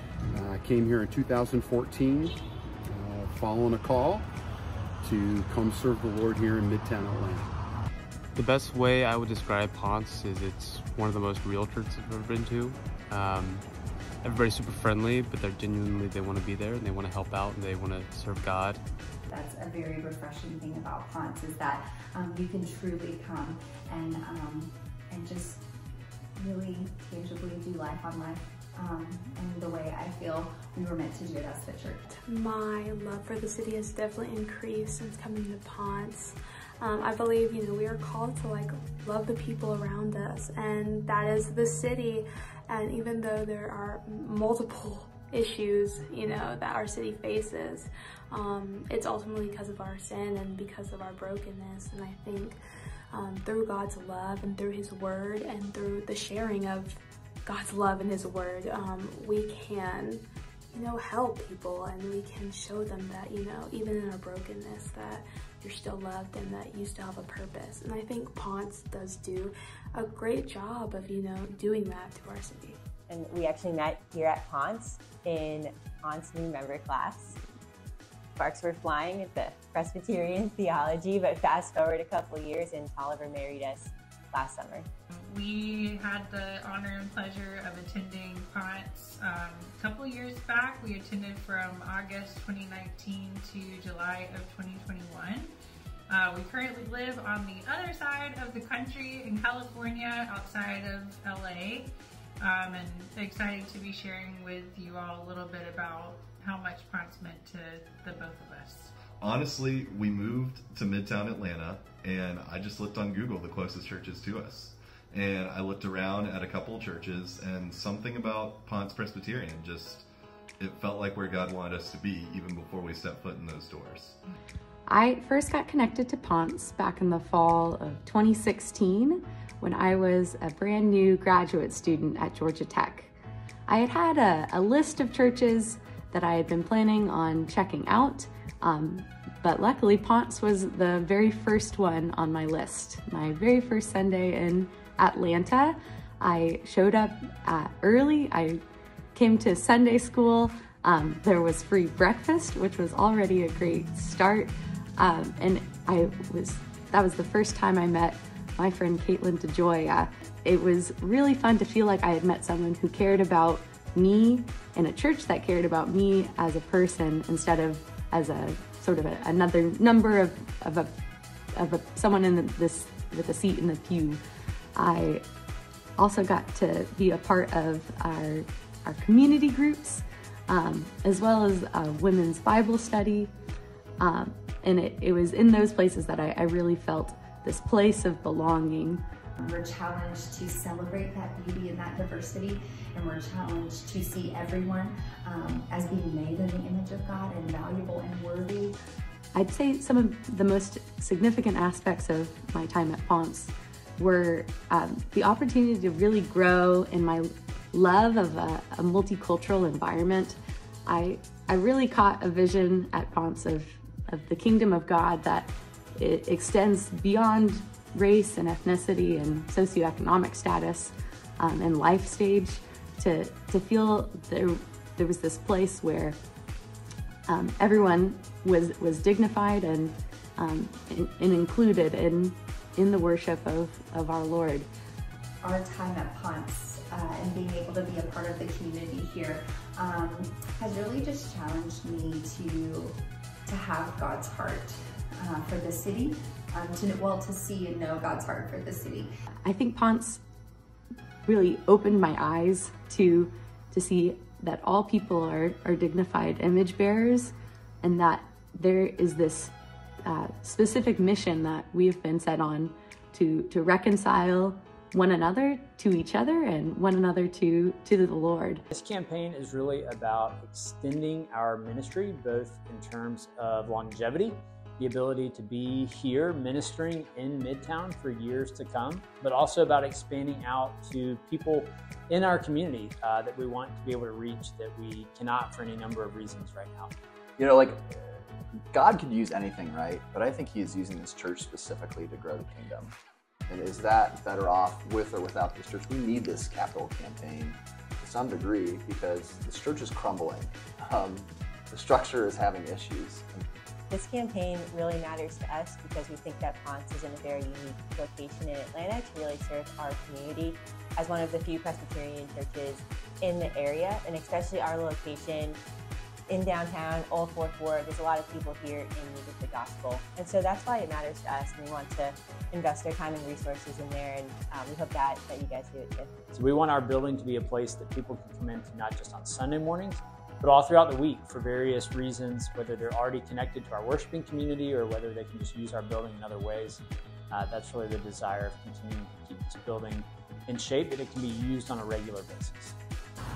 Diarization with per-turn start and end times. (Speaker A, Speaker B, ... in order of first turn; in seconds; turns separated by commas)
Speaker A: 0.3-2.4, Speaker A: 2.9-4.3, Speaker A: 5.0-7.5, Speaker B: 8.3-13.7, Speaker B: 14.2-18.8, Speaker C: 19.3-25.6, Speaker C: 26.4-32.1, Speaker D: 32.1-52.6, Speaker D: 53.1-72.8, Speaker E: 73.1-77.4, Speaker E: 78.4-84.9, Speaker F: 85.2-95.5, Speaker F: 96.1-108.9, Speaker G: 109.2-120.1, Speaker G: 120.6-124.2, Speaker H: 124.9-133.1, Speaker H: 133.7-148.6, Speaker H: 149.2-170.9, Speaker H: 171.6-174.2, Speaker H: 174.8-175.2, Speaker H: 176.0-183.3, Speaker H: 184.0-189.0, Speaker C: 189.4-198.8, Speaker H: 199.3-226.2, Speaker H: 227.3-234.7, Speaker C: 235.4-249.1, Speaker H: 249.5-250.2, Speaker H: 251.3-259.5, Speaker H: 260.1-268.6, Speaker I: 268.7-286.9, Speaker J: 287.4-287.9, Speaker J: 288.7-292.9, Speaker J: 293.5-303.5, Speaker E: 303.9-315.6, Speaker E: 316.3-326.1, Speaker I: 326.3-342.8